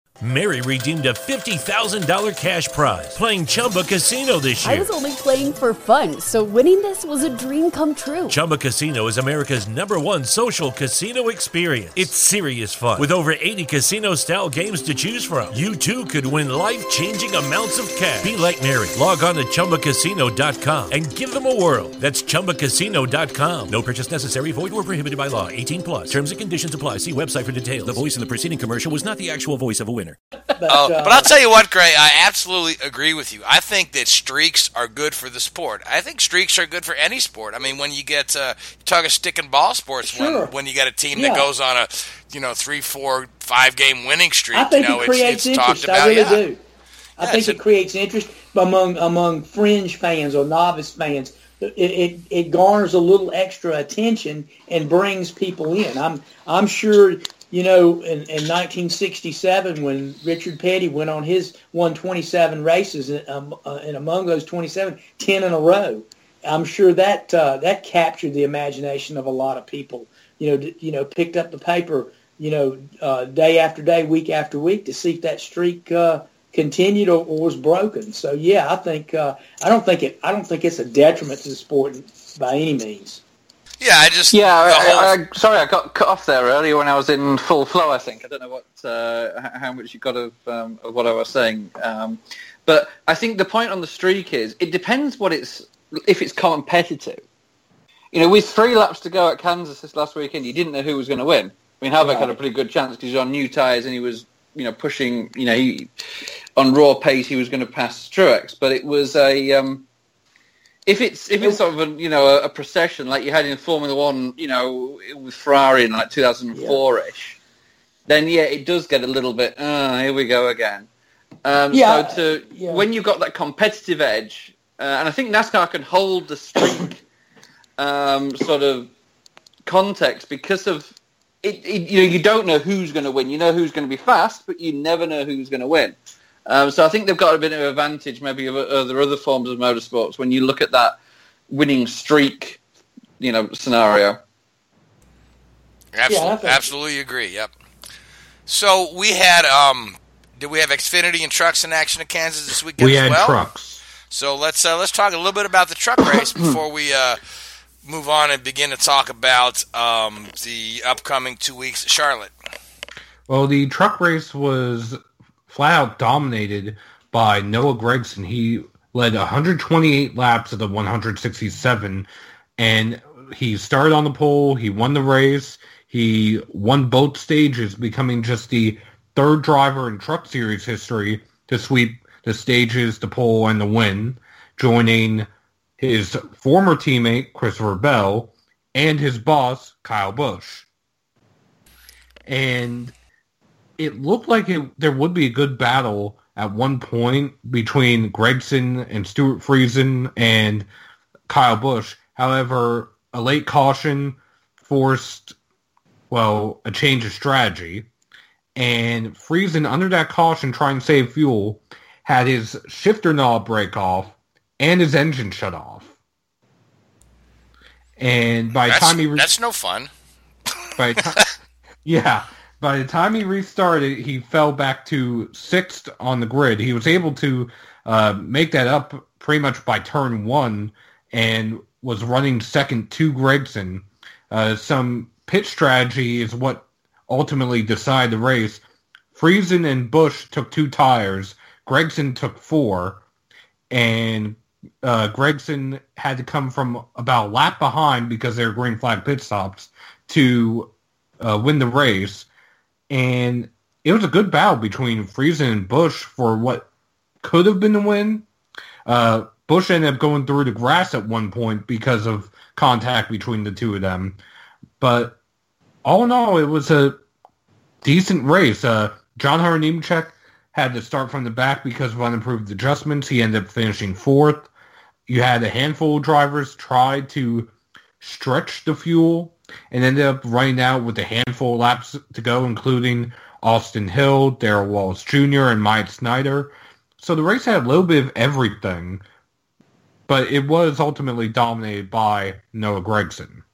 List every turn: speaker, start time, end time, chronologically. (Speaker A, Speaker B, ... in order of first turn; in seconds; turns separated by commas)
Speaker A: 0.2-4.9, Speaker B: 4.6-8.4, Speaker A: 8.3-30.2, Speaker C: 30.6-31.3, Speaker D: 30.7-46.4, Speaker C: 40.0-40.5, Speaker C: 41.1-41.5, Speaker C: 44.5-46.6, Speaker D: 47.2-47.6, Speaker C: 47.2-83.2, Speaker D: 83.8-85.1, Speaker E: 84.3-97.2, Speaker E: 98.1-105.9, Speaker C: 102.0-102.4, Speaker E: 106.5-109.8, Speaker E: 110.8-117.4, Speaker C: 116.5-116.8, Speaker E: 118.1-120.9, Speaker E: 121.4-127.0, Speaker C: 121.7-122.8, Speaker E: 127.8-128.9, Speaker E: 129.7-140.9, Speaker E: 141.5-142.6, Speaker E: 143.2-144.2, Speaker D: 145.9-147.5, Speaker C: 146.1-146.6, Speaker D: 148.5-153.4, Speaker F: 152.8-153.8, Speaker D: 154.1-157.2, Speaker E: 156.0-156.5, Speaker D: 157.8-162.3, Speaker F: 163.3-190.7, Speaker F: 192.3-192.9, Speaker F: 193.8-200.7, Speaker F: 201.3-205.3, Speaker F: 206.1-207.9, Speaker F: 208.6-215.9, Speaker F: 218.0-219.3, Speaker D: 218.7-219.9, Speaker F: 220.8-221.3, Speaker F: 221.8-238.6, Speaker F: 239.1-243.0, Speaker F: 243.7-252.3, Speaker F: 252.9-256.7, Speaker F: 257.2-258.2, Speaker F: 258.9-264.2, Speaker F: 264.8-265.2, Speaker F: 265.8-267.0, Speaker F: 267.8-274.5, Speaker F: 275.1-289.0, Speaker F: 290.1-293.4